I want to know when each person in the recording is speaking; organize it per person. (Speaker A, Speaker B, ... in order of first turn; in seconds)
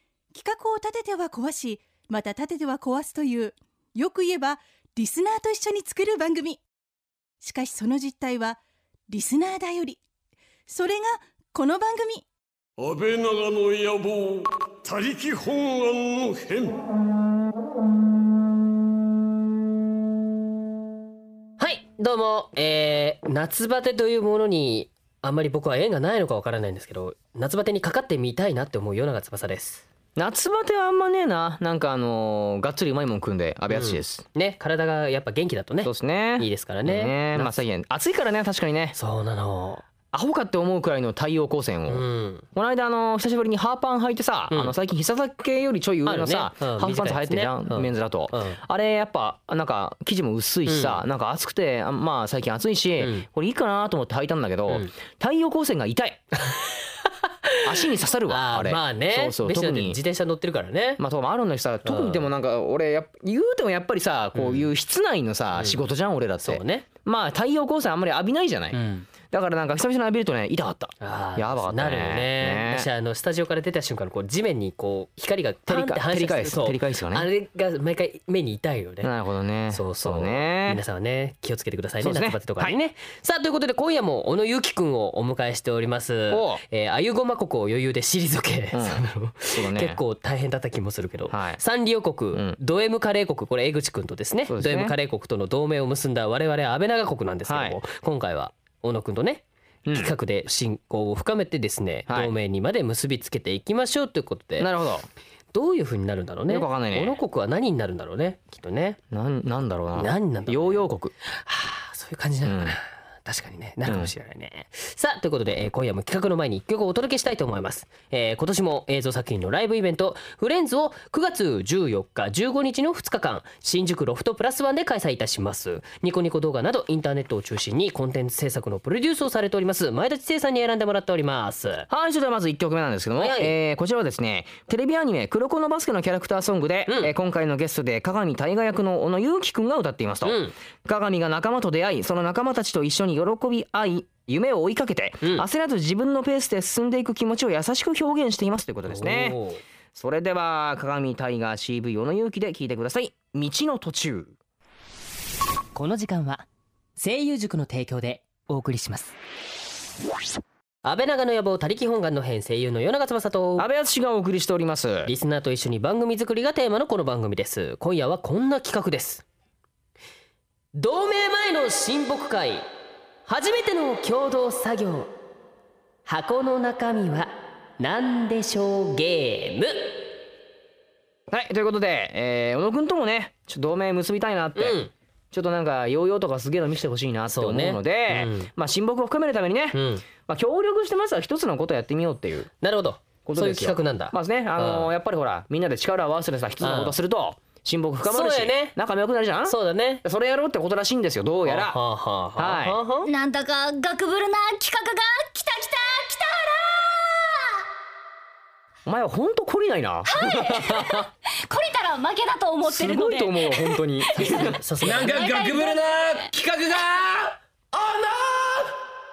Speaker A: 0.3-6.6, 7.4-8.6, 9.1-10.0, 10.7-12.2
Speaker B: 12.8-16.8
Speaker C: 21.6-29.9, 33.7-37.6, 39.0-39.9, 41.9-42.5, 46.0-48.6, 50.7-51.0, 53.0-53.3, 54.7-54.9, 56.4-61.0, 61.9-62.3, 64.3-64.7, 65.5-65.8, 66.4-66.9, 68.7-69.1, 71.0-79.1, 79.7-104.7, 105.5-109.0, 110.0-131.9, 133.2-133.6, 136.9-137.2, 140.2-140.6, 148.9-149.6, 155.8-156.4, 157.0-159.1, 160.8-163.7, 165.1-169.2, 170.8-172.7, 173.3-175.1, 176.1-180.1, 184.6-184.9, 187.3-188.5, 189.7-190.1, 192.6-194.9, 196.6-197.0, 198.0-198.8, 199.4-200.0, 201.4-203.1, 214.2-215.3
Speaker D: 30.2-34.2, 35.8-39.0, 40.1-56.2, 57.6-60.0, 61.0-72.9, 75.7-77.3, 79.0-80.8, 82.0-82.8, 86.3-86.6, 88.7-90.0, 91.3-91.6, 92.3-92.6, 94.5-95.0, 97.5-97.8, 99.9-100.1, 102.1-102.3, 104.6-105.1, 106.5-107.2, 109.1-111.1, 112.4-112.8, 113.8-114.1, 131.9-149.4, 149.9-154.3, 163.6-165.1, 181.3-184.8, 185.3-192.5, 193.2-201.8, 202.4-202.8, 208.9-211.1, 212.7-214.6
Speaker E: 203.1-207.6, 210.1-216.3
Speaker F: 214.8-218.8